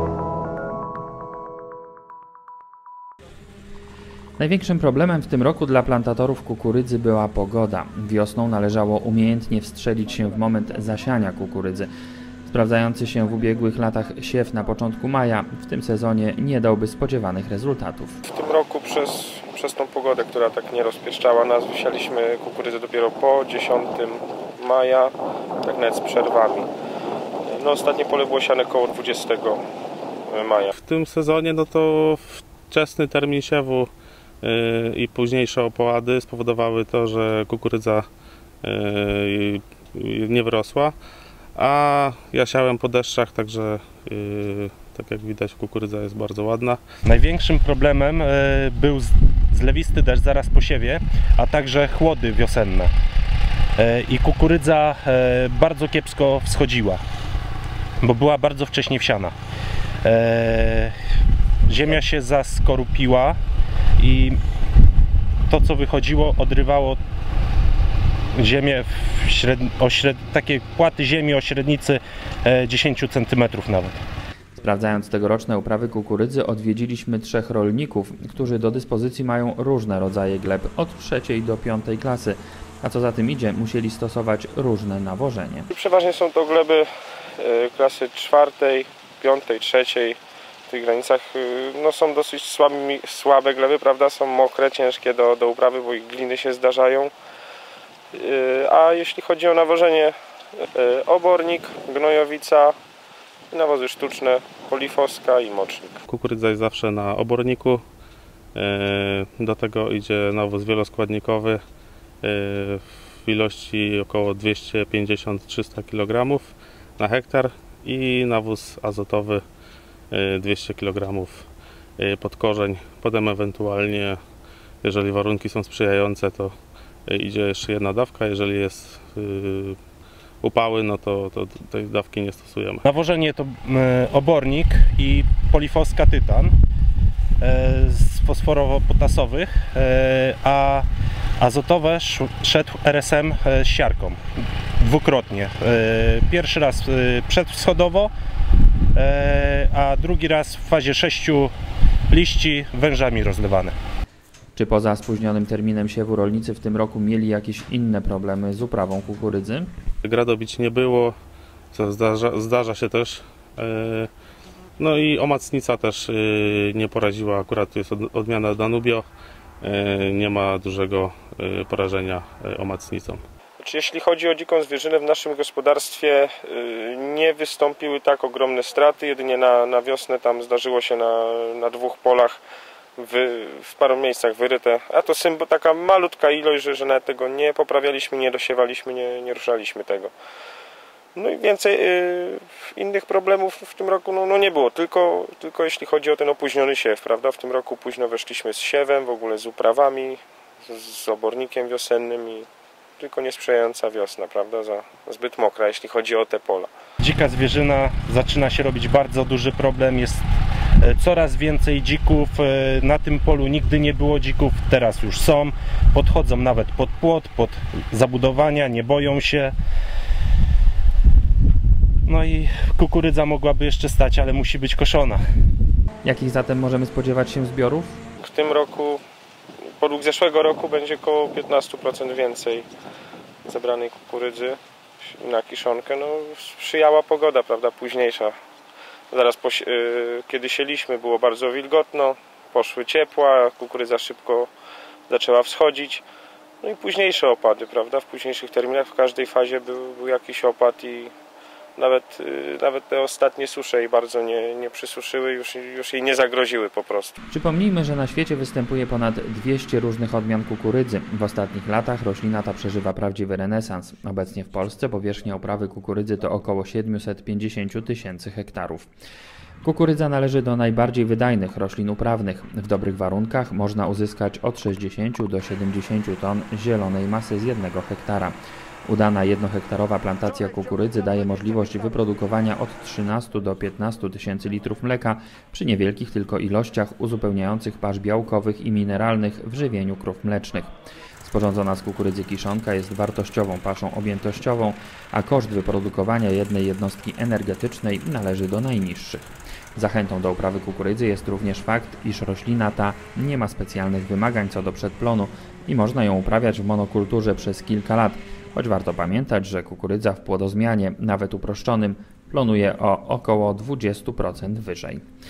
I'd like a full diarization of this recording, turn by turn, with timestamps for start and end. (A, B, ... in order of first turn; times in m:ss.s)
0:04.4-0:11.9 A
0:12.5-0:18.2 A
0:18.2-0:26.7 B
0:27.5-0:29.6 B
0:30.3-0:30.7 B
0:30.7-0:33.9 C
0:34.4-0:38.1 C
0:38.6-0:41.0 C
0:41.6-0:46.8 C
0:47.0-0:52.9 D
0:53.8-0:57.0 D
0:58.0-0:59.3 D
1:00.0-1:00.9 D
1:01.7-1:03.4 D
1:04.0-1:04.4 D
1:05.5-1:07.0 D
1:08.3-1:14.0 D
1:14.6-1:25.7 A
1:25.7-1:26.9 B
1:27.4-1:30.2 B
1:30.7-1:37.1 B
1:38.1-1:42.7 B
1:43.5-1:46.0 B
1:46.1-1:47.8 C
1:48.5-1:51.6 C
1:52.2-1:59.4 C
2:00.1-2:04.2 C
2:04.8-2:09.8 C
2:10.4-2:12.8 C
2:12.8-2:16.5 D
2:17.4-2:20.9 D
2:21.4-2:24.2 D
2:24.8-2:28.1 D
2:28.9-2:31.5 D
2:32.1-2:33.7 D
2:34.5-2:39.7 A
2:40.0-2:41.1 C
2:41.7-2:44.1 C
2:44.8-2:49.0 C
2:49.6-2:53.2 C
2:53.6-3:02.4 B
3:03.0-3:10.1 B
3:11.1-3:22.5 B
3:23.0-3:26.7 B
3:27.0-3:30.2 D
3:30.8-3:39.5 D
3:42.0-3:45.2 D
3:46.0-3:48.0 A
3:48.2-3:49.0 B
3:49.8-3:52.7 B
3:53.4-3:58.3 B
3:59.1-4:04.5 B
4:05.1-4:06.0 B
4:06.6-4:11.1 B
4:11.8-4:17.2 B
4:17.3-4:28.9 A
4:29.6-4:50.7 A
4:51.2-5:15.0 A